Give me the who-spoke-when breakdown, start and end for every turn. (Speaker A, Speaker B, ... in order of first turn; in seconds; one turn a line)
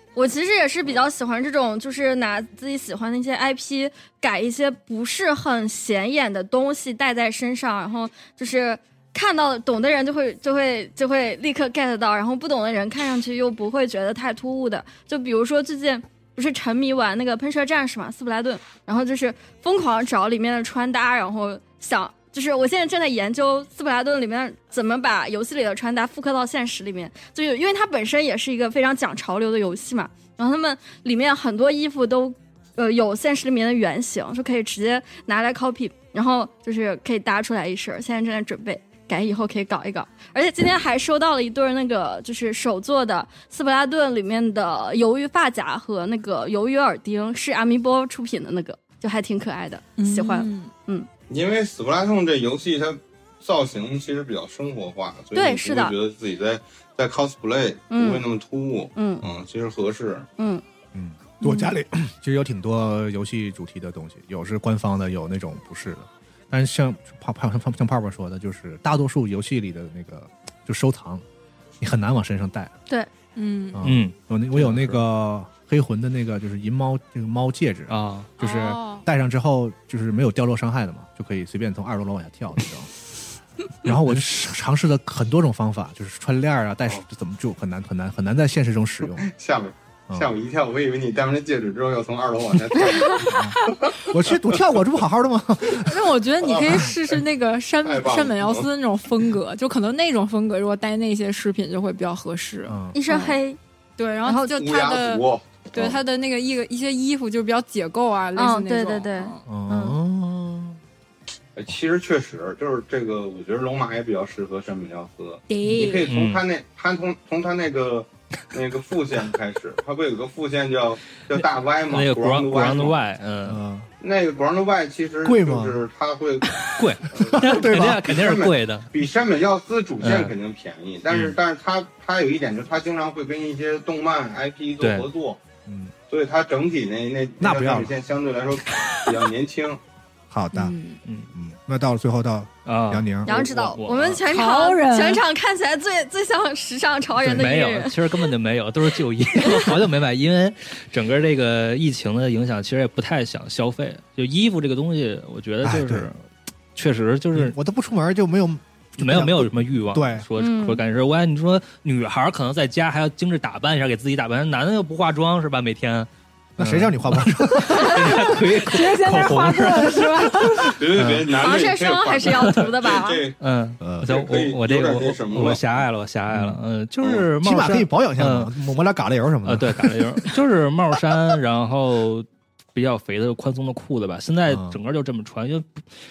Speaker A: 0.1-51.1
Speaker B: 50.0-50.7
Speaker C: 51.3-60.3
Speaker A: 55.3-55.9
Speaker A: 57.9-58.2
Speaker A: 58.9-59.2
Speaker A: 60.4-60.6
Speaker D: 60.9-71.2
Speaker D: 71.8-72.7
Speaker B: 73.3-73.8
Speaker D: 73.7-82.9
Speaker E: 73.8-75.0
Speaker E: 77.9-78.3
Speaker B: 78.4-79.0
Speaker D: 83.8-89.3
Speaker C: 89.2-94.5
Speaker D: 93.3-96.0
Speaker B: 95.8-103.4
Speaker C: 96.4-97.1
Speaker C: 97.8-98.7
Speaker D: 102.7-103.0
Speaker A: 102.9-103.6
Speaker B: 104.0-109.4
Speaker A: 104.2-104.5
Speaker C: 104.5-106.0
Speaker A: 108.3-110.0
Speaker D: 109.5-110.8
Speaker C: 111.5-123.0
Speaker B: 115.5-116.1
Speaker E: 116.0-116.4
Speaker E: 121.4-123.6
Speaker D: 123.5-123.9
Speaker C: 124.0-135.4
Speaker D: 125.2-125.8
Speaker E: 126.8-128.9
Speaker D: 127.2-128.1
Speaker E: 130.0-130.3
Speaker E: 134.8-135.1
Speaker D: 135.7-135.9
Speaker C: 136.1-139.8
Speaker D: 137.4-137.9
Speaker D: 140.3-140.7
Speaker B: 140.5-141.0
Speaker E: 141.0-141.3
Speaker D: 141.3-143.3
Speaker E: 142.7-144.2
Speaker A: 143.2-147.9
Speaker B: 144.3-145.2
Speaker D: 147.2-147.5
Speaker E: 147.3-156.2
Speaker D: 155.6-156.1
Speaker E: 156.7-157.6
Speaker D: 157.3-160.2
Speaker E: 159.0-171.4
Speaker A: 160.4-160.8
Speaker D: 166.6-169.4
Speaker B: 168.2-170.8
Speaker C: 170.8-173.4
Speaker A: 171.4-173.2
Speaker E: 173.4-178.5
Speaker D: 173.8-174.1
Speaker C: 174.0-175.6
Speaker D: 176.3-176.6
Speaker D: 177.4-180.1
Speaker E: 179.4-185.8
Speaker D: 184.5-184.8